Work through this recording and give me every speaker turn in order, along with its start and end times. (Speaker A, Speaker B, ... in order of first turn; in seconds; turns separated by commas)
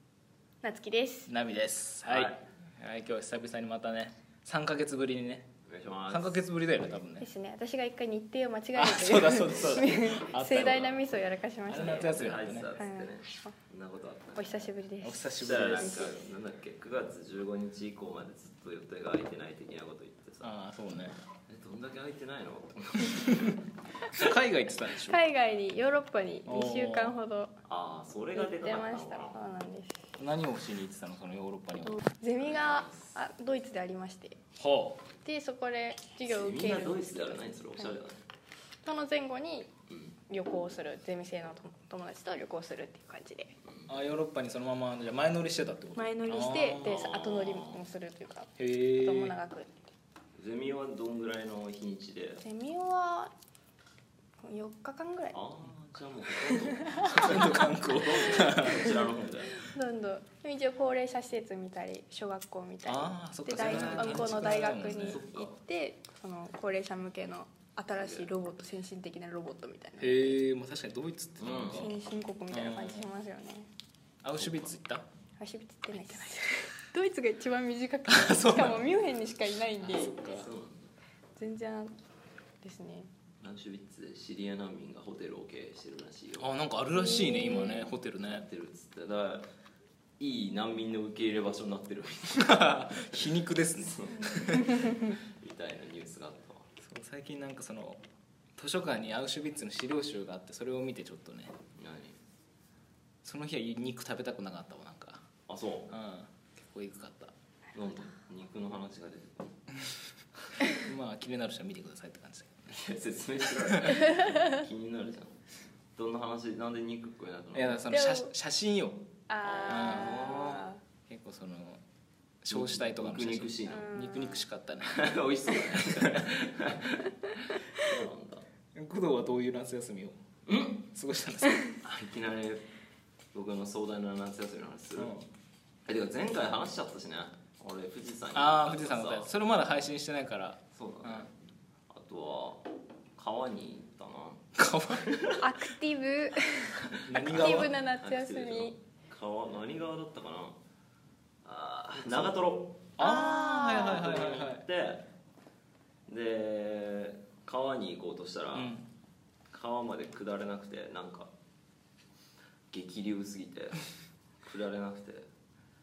Speaker A: 0.6-1.3, Speaker B: 1.3-5.5, Speaker C: 2.0-2.4, Speaker C: 5.7-6.4, Speaker B: 6.1-7.3, Speaker A: 7.2-13.5, Speaker B: 8.8-10.9, Speaker C: 9.4-11.0, Speaker B: 11.7-12.7, Speaker C: 11.8-14.7, Speaker A: 14.3-16.1, Speaker B: 15.0-16.1, Speaker C: 15.4-20.5, Speaker B: 20.4-21.1, Speaker C: 21.5-23.6, Speaker B: 24.1-25.2, Speaker A: 25.0-27.6, Speaker B: 26.4-27.1, Speaker C: 27.7-29.4, Speaker A: 28.3-30.1, Speaker B: 30.2-32.0, Speaker A: 31.9-34.4, Speaker C: 32.4-33.2, Speaker B: 34.6-35.0, Speaker A: 35.2-38.0, Speaker C: 36.2-38.2, Speaker A: 38.8-39.7, Speaker C: 39.9-40.2, Speaker A: 40.3-43.5, Speaker C: 43.7-43.9, Speaker B: 43.9-47.0, Speaker A: 46.0-49.7, Speaker C: 46.8-47.8, Speaker B: 48.6-49.3, Speaker C: 50.4-52.4, Speaker A: 52.4-53.3, Speaker A: 54.4-55.4, Speaker C: 55.3-59.6, Speaker A: 56.5-57.3, Speaker B: 56.9-58.9, Speaker A: 58.3-58.9, Speaker A: 59.6-70.4, Speaker B: 62.8-65.2, Speaker C: 63.6-65.6, Speaker C: 67.9-68.3, Speaker B: 70.0-72.0, Speaker C: 71.4-71.9, Speaker A: 71.7-73.7, Speaker B: 72.5-73.0, Speaker B: 74.2-75.0, Speaker C: 74.4-74.7, Speaker A: 75.4-80.2, Speaker B: 78.1-78.8, Speaker B: 79.8-80.5, Speaker C: 79.9-80.9, Speaker A: 81.4-81.9, Speaker A: 82.6-83.1, Speaker C: 83.4-86.5, Speaker B: 86.4-88.5, Speaker A: 86.9-87.9, Speaker C: 88.2-89.5, Speaker C: 90.2-96.7, Speaker B: 92.3-95.0, Speaker B: 96.8-98.0, Speaker B: 98.6-101.5, Speaker C: 101.8-102.2, Speaker B: 103.2-105.2, Speaker C: 105.5-105.9, Speaker B: 105.9-107.3, Speaker C: 107.7-109.5, Speaker B: 110.7-112.8, Speaker C: 112.7-115.3, Speaker C: 116.0-117.8, Speaker B: 117.5-119.0, Speaker A: 117.9-118.3, Speaker A: 119.3-120.8, Speaker C: 119.4-120.7, Speaker B: 119.7-120.3, Speaker B: 121.1-121.8, Speaker B: 122.4-125.1, Speaker C: 122.5-123.9, Speaker A: 123.7-124.4, Speaker C: 124.8-127.1, Speaker B: 125.8-126.3, Speaker C: 127.7-128.4, Speaker B: 128.7-130.2, Speaker C: 130.5-130.8, Speaker B: 130.9-131.6, Speaker C: 131.8-132.7, Speaker C: 133.3-135.1, Speaker B: 135.0-135.2, Speaker C: 135.9-139.3, Speaker B: 138.3-141.3, Speaker C: 140.7-141.3, Speaker C: 141.9-145.4, Speaker B: 144.6-145.0, Speaker A: 145.4-148.7, Speaker B: 147.0-147.7, Speaker C: 147.1-150.6, Speaker C: 151.4-155.0, Speaker B: 151.9-152.3, Speaker B: 153.0-154.6, Speaker A: 153.0-154.1, Speaker C: 156.1-158.7, Speaker B: 158.5-158.9, Speaker C: 159.5-161.3, Speaker C: 162.7-163.8, Speaker C: 164.4-165.3